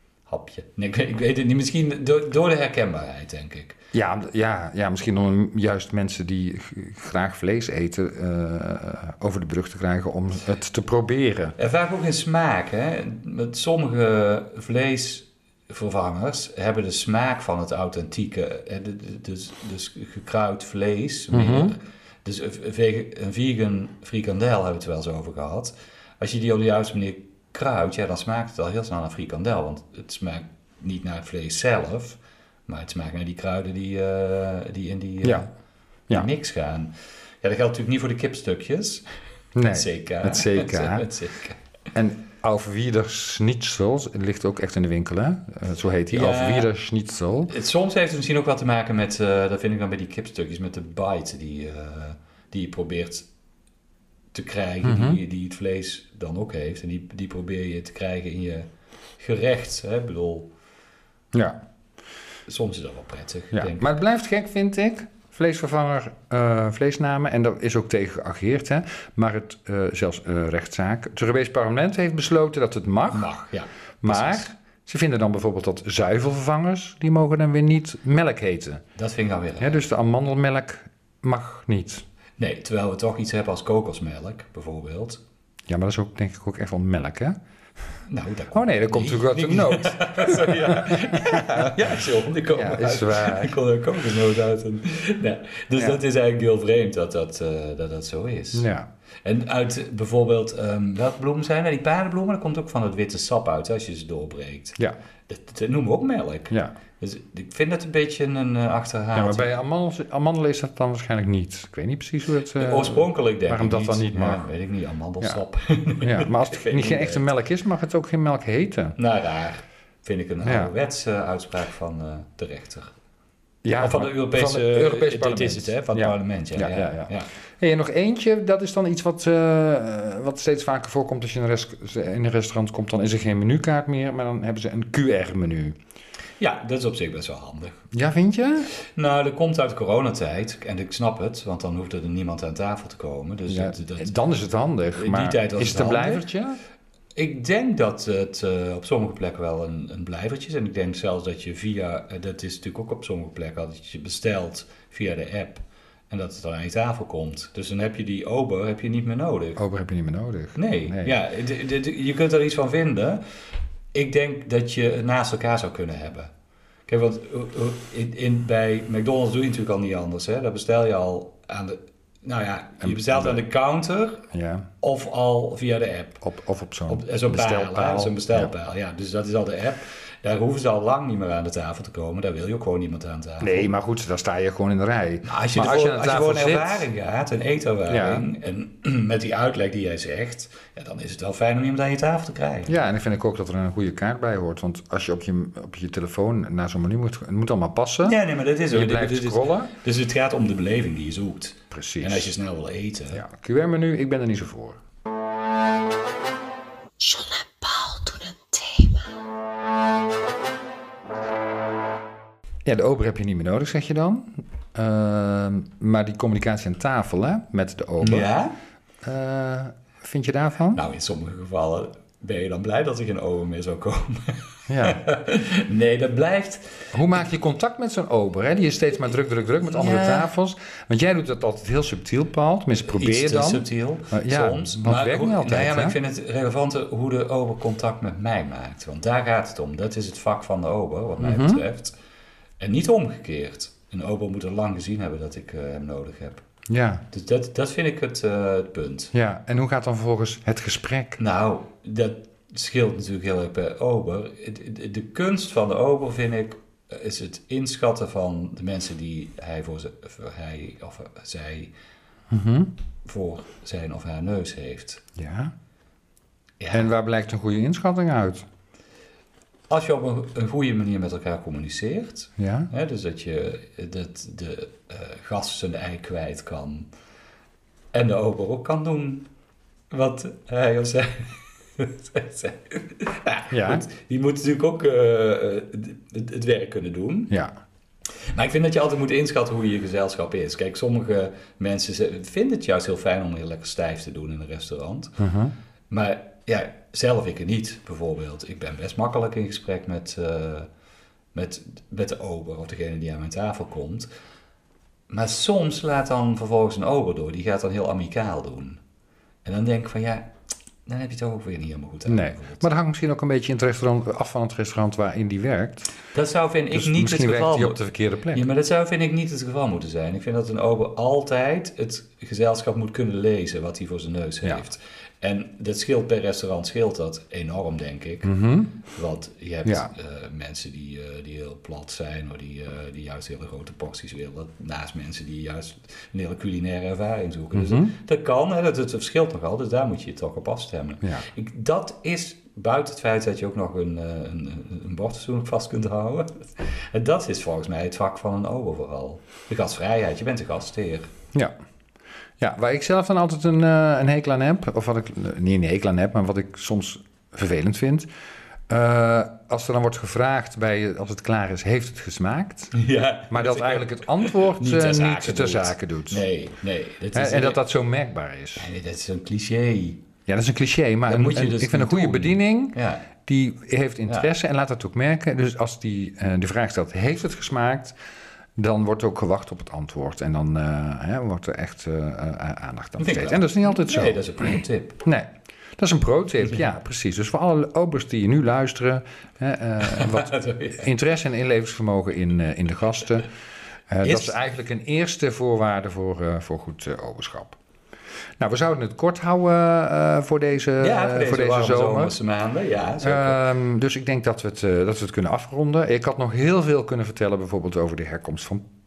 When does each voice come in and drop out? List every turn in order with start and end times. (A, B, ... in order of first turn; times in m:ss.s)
0:00.3-0:03.8 A
0:03.9-0:11.6 B
0:11.6-0:35.5 A
0:21.3-0:21.8 B
0:36.1-0:39.0 A
0:39.6-0:41.1 B
0:39.7-0:41.6 A
0:41.9-0:47.5 B
0:46.1-0:46.7 A
0:47.5-0:53.3 A
0:54.3-1:00.5 A
0:54.8-0:55.2 B
1:01.3-1:01.6 B
1:02.5-1:03.9 A
1:03.5-1:13.3 B
1:13.1-1:14.5 A
1:14.0-1:18.8 B
1:19.0-1:19.8 A
1:19.6-1:22.0 B
1:22.4-1:25.2 A
1:25.7-1:27.4 B
1:28.1-1:38.7 A
1:28.5-1:31.7 B
1:32.5-1:33.6 B
1:35.7-1:36.0 B
1:38.5-1:38.9 B
1:39.2-1:44.8 A
1:45.3-1:49.5 A
1:49.2-1:54.5 B
1:52.6-1:57.3 A
1:56.0-1:59.0 B
1:59.0-2:02.9 A
2:00.4-2:00.7 B
2:03.6-2:15.8 B
2:03.8-2:07.3 A
2:16.4-2:17.8 A
2:17.9-2:18.7 B
2:18.9-2:24.2 A
2:23.5-2:26.6 B
2:24.9-2:26.3 A
2:27.2-2:39.6 A
2:39.6-2:41.1 B
2:40.6-2:43.2 A
2:43.9-2:46.3 A
2:46.9-2:54.3 A
2:52.8-2:53.4 B
2:54.3-2:54.7 B
2:54.8-2:56.2 A
2:56.2-2:58.5 B
2:56.9-3:03.7 A
3:03.4-3:06.9 B
3:05.2-3:12.8 A
3:07.9-3:08.2 B
3:12.7-3:18.2 B
3:18.0-3:23.2 A
3:18.7-3:19.7 B
3:21.7-3:22.3 B
3:23.1-3:24.8 B
3:27.0-3:29.2 C
3:32.6-3:38.3 B
3:38.0-3:38.6 A
3:39.0-3:40.8 B
3:40.7-3:47.2 A
3:44.7-3:45.0 B
3:46.9-3:56.0 B
3:49.7-3:50.3 A
3:52.9-4:02.0 A
4:01.2-4:01.6 B
4:02.6-4:06.4 A
4:06.7-4:07.0 B
4:07.1-4:09.1 A
4:09.1-4:11.2 B
4:11.2-4:21.7 A
4:22.3-4:22.7 B
4:23.0-4:25.0 A
4:25.2-4:25.5 B
4:26.6-4:26.9 A
4:26.7-4:28.5 B
4:29.7-4:36.9 A
4:32.4-4:32.7 B
4:37.9-4:39.3 A
4:39.9-4:47.3 A
4:43.5-4:43.8 B
4:48.3-4:55.2 A
4:55.2-4:55.5 B
4:55.9-5:00.7 A
5:01.3-5:04.1 A
5:05.1-5:08.8 A
5:09.4-5:10.3 A
5:10.9-5:12.7 A
5:12.1-5:15.9 B
5:16.1-5:17.8 A
5:16.7-5:18.4 B
5:18.3-5:28.3 A
5:28.2-5:28.7 B
5:28.9-5:51.1 A
5:29.6-5:29.9 B
5:37.6-5:37.9 B
5:52.4-5:58.1 B
5:58.7-6:02.7 B
6:02.7-6:07.6 A
6:03.3-6:06.2 B
6:07.1-6:08.7 B
6:08.6-6:10.0 A
6:10.3-6:18.0 B
6:11.1-6:13.1 A
6:18.6-6:33.3 B
6:23.0-6:25.0 A
6:29.8-6:30.9 A
6:33.9-6:37.6 B
6:34.0-6:34.4 A
6:38.4-6:42.2 B
6:40.8-6:43.4 A
6:43.0-6:48.6 B